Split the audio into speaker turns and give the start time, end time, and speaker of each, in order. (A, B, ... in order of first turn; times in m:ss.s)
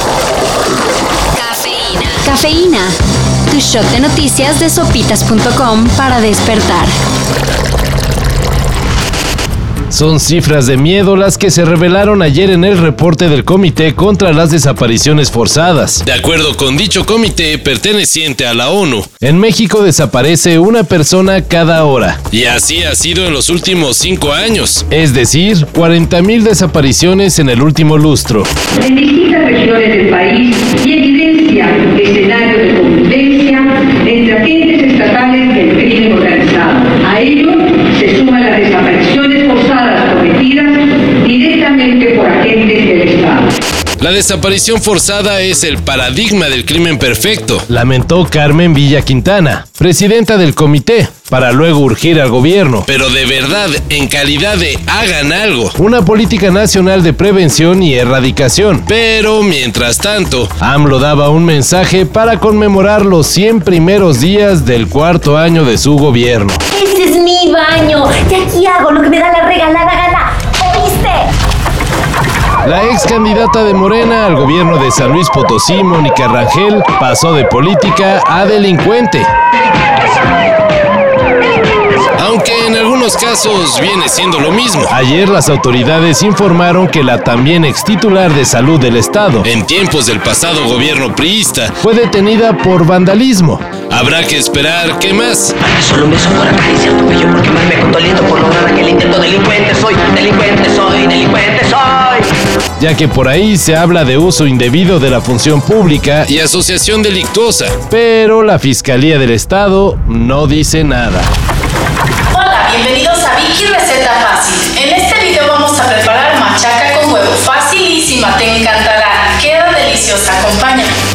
0:01.5-0:02.9 A
0:03.5-0:06.9 A
0:09.9-0:28.5 B
0:28.8-0:43.5 C
0:44.0-1:06.6 B
1:06.7-1:11.3 D
1:12.6-1:19.3 B
1:22.2-1:35.5 B
1:35.6-1:42.3 E
1:42.8-1:51.3 B
1:52.3-2:00.9 F